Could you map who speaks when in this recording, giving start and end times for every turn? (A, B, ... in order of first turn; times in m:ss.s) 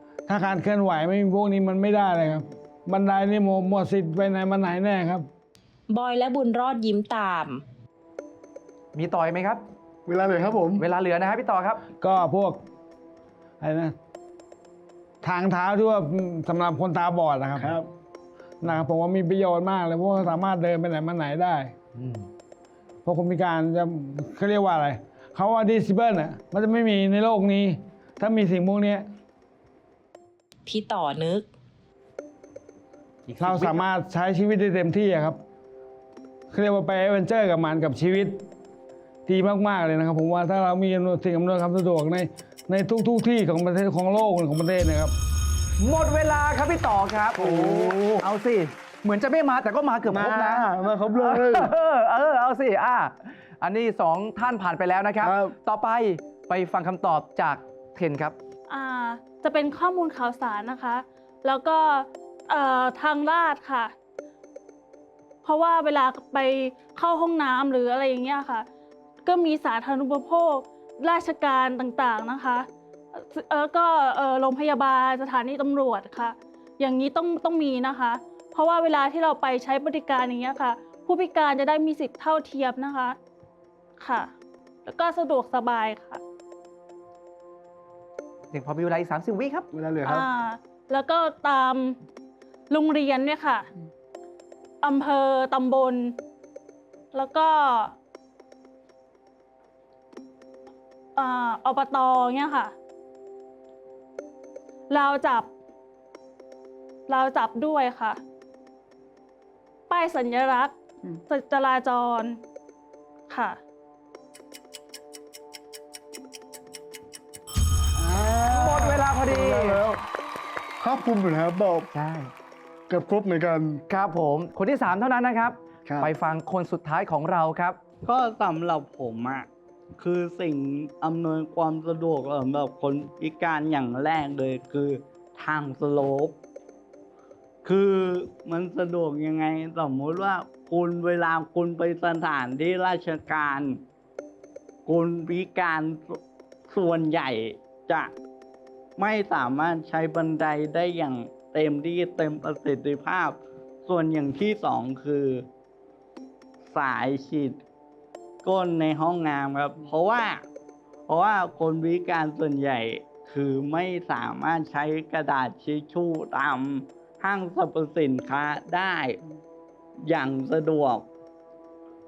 0:00.3-0:05.2 A
0:05.9-0:07.6 B
0:09.0-0:09.6 C
0:10.1-0:10.8 D
0:10.8-0:11.8 C
0:12.0-0:12.6 A
0:13.6-0:13.9 A
0:15.2-0:17.8 A
0:17.6-0:17.9 D
0:18.6-0:21.7 A
0:22.0-0:22.2 C
0:23.0-0:29.0 A
0:30.7-0:31.5 B
0:33.3-0:33.9 C
0:33.4-0:35.4 A
0:36.5-0:38.4 A
0:39.3-0:45.1 A
0:45.8-0:58.4 C
0:47.4-0:48.3 D
0:50.1-0:51.7 D
0:55.2-0:55.5 D
0:58.7-1:03.9 E
1:05.4-1:08.7 E
1:09.2-1:23.2 E
1:24.0-1:24.3 E
1:24.8-1:26.2 E
1:28.5-1:29.7 C
1:29.7-1:30.3 D
1:30.0-1:32.0 E
1:32.7-1:33.7 E
1:34.8-1:36.2 E
1:37.1-1:37.9 E
1:41.2-1:42.7 E
1:44.9-1:45.5 E
1:47.1-1:48.2 E
1:49.9-1:50.8 E
1:51.3-1:52.4 E
1:53.3-1:53.6 E
1:58.0-2:00.0 D
1:58.5-1:59.8 C
2:00.8-2:01.9 D
2:01.9-2:02.3 C
2:02.9-2:03.8 D
2:03.9-2:07.8 C
2:08.0-2:16.4 F
2:17.6-2:23.8 F
2:24.9-2:28.2 F
2:29.0-2:35.5 F
2:36.6-2:37.6 F
2:38.4-2:40.5 F
2:41.1-2:49.2 F
2:50.1-2:51.1 F